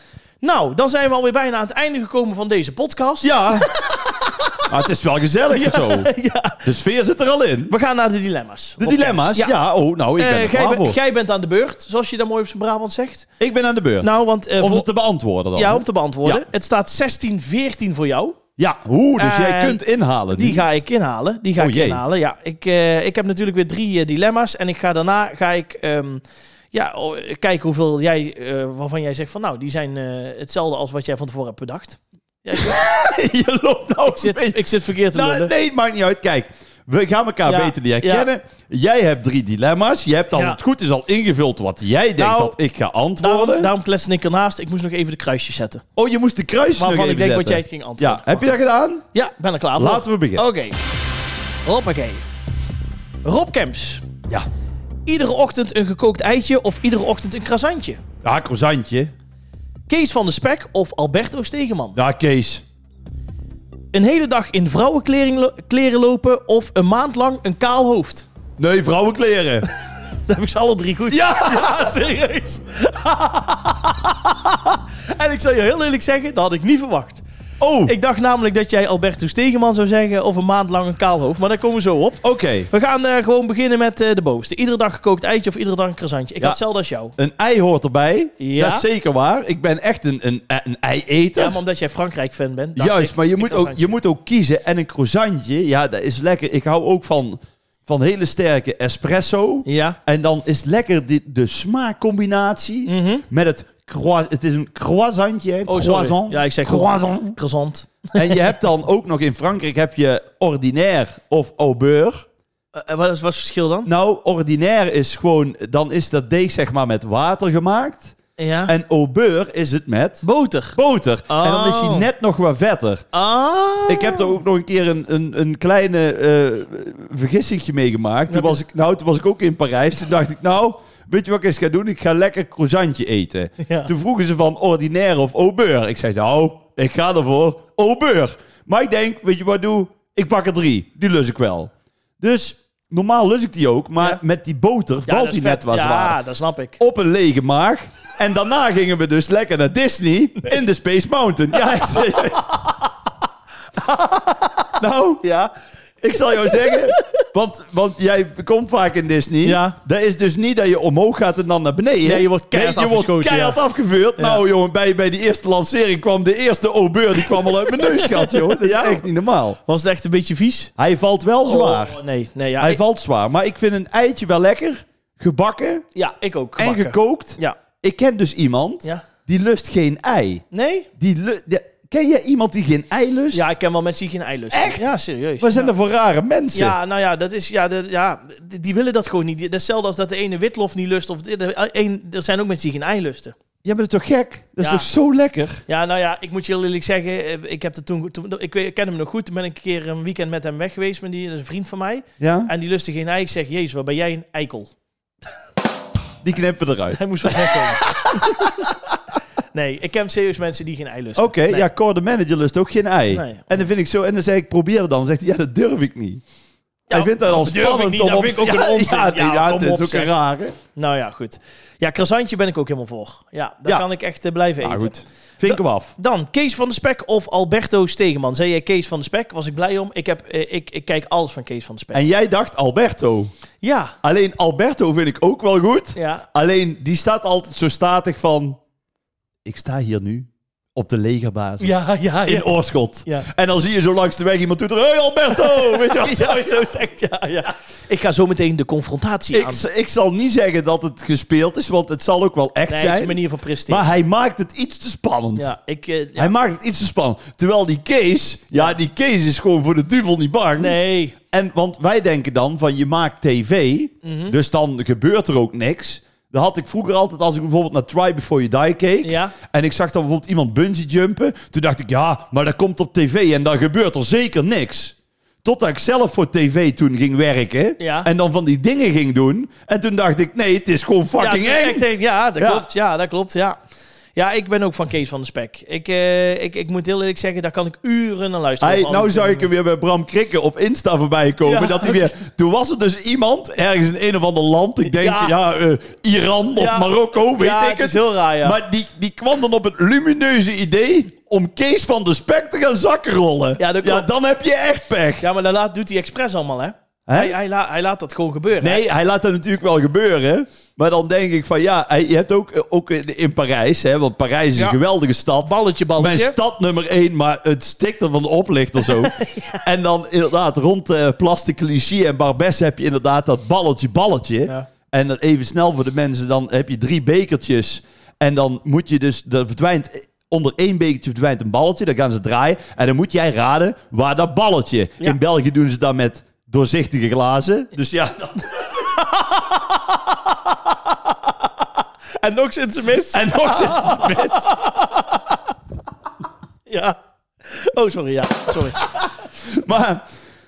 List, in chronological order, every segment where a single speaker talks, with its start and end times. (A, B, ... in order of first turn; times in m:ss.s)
0:00.4-0:04.7 A
0:03.2-0:03.7 B
0:04.7-0:06.1 B
0:05.5-0:06.6 A
0:06.6-0:07.7 B
0:07.7-0:09.6 A
0:08.8-0:11.0 B
0:10.2-0:13.3 A
0:13.4-0:16.4 B
0:14.0-0:14.9 A
0:15.5-0:18.4 A
0:18.6-0:20.6 B
0:19.2-0:33.2 A
0:21.6-0:22.0 B
0:32.5-0:43.7 B
0:34.0-0:35.5 A
0:37.4-0:38.3 A
0:42.2-0:42.6 A
0:43.2-0:45.8 A
0:46.0-0:49.0 B
0:46.8-0:48.6 A
0:49.1-0:50.8 A
0:49.8-0:50.4 B
0:51.6-0:52.2 A
0:53.2-0:54.1 A
0:55.0-0:58.0 A
0:58.2-0:59.1 B
0:59.9-1:02.0 A
1:02.0-1:02.6 B
1:03.9-1:08.2 A
1:08.6-1:09.7 B
1:10.3-1:17.2 A
1:11.1-1:11.9 B
1:17.6-1:17.9 B
1:17.8-1:27.1 A
1:22.2-1:22.7 B
1:27.2-1:31.6 B
1:28.4-1:28.8 A
1:31.4-1:34.0 A
1:32.8-1:47.4 B
1:39.6-1:40.0 A
1:42.8-1:43.2 A
1:45.7-1:48.5 A
1:48.1-1:52.2 B
1:52.7-1:53.9 A
1:53.8-1:58.2 B
1:58.4-1:58.7 A
1:58.7-2:03.0 B
2:00.2-2:02.1 A
2:03.1-2:04.4 A
2:03.9-2:26.2 B
2:08.3-2:08.6 A
2:13.6-2:13.9 A
2:25.1-2:26.8 A
2:26.8-2:32.5 B
2:31.6-2:32.8 A
2:33.8-2:34.6 A
2:34.7-2:35.2 B
2:35.2-2:35.5 A
2:36.0-2:49.6 B
2:36.4-2:37.2 A
2:39.4-2:39.8 A
2:42.0-2:43.6 A
2:44.2-2:44.4 A
2:47.2-2:49.1 A
2:49.6-2:50.7 A
2:50.8-2:52.0 B
2:51.4-2:52.8 A
2:52.6-2:55.8 B
2:55.9-2:57.6 A
2:56.6-3:00.4 B
3:00.5-3:00.9 A
3:01.0-3:03.4 B
3:03.3-3:05.7 A
3:04.5-3:06.8 B
3:06.5-3:13.3 A
3:13.6-3:15.6 B
3:14.6-3:14.9 A
3:15.7-3:24.7 A
3:22.2-3:22.5 B
3:26.2-3:28.6 B
3:26.9-3:28.7 A
3:29.5-3:31.7 A
3:31.2-3:36.2 B
3:33.1-3:33.6 A
3:36.9-3:40.1 A
3:36.9-3:40.6 B
3:40.7-3:44.9 A
3:44.6-3:45.9 B
3:45.4-3:52.0 A
3:51.9-3:53.3 B
3:53.6-3:53.9 A
3:54.0-3:58.6 B
3:55.9-3:56.2 A
3:59.4-4:06.6 B
4:01.6-4:02.5 A
4:05.3-4:09.6 A
4:09.3-4:15.5 B
4:12.7-4:13.9 A
4:15.4-4:16.3 A
4:16.2-4:20.8 B
4:20.6-4:21.2 A
4:21.3-4:41.8 B
4:24.0-4:24.3 A
4:29.0-4:29.3 A
4:37.8-4:38.1 A
4:41.2-4:43.6 A
4:42.4-4:42.7 B
4:44.2-4:49.5 A
4:48.6-5:05.2 B
4:51.4-4:52.1 A
4:54.8-4:55.3 A
4:56.6-4:58.6 A
5:03.6-5:04.1 A
5:05.2-5:08.8 A
5:07.1-5:07.4 B
5:08.6-5:38.5 B
5:15.4-5:16.4 A
5:18.8-5:19.6 A
5:38.6-5:39.8 A
5:42.2-5:45.0 A
5:43.1-5:44.5 B
5:46.7-5:49.1 A
5:49.0-5:50.0 B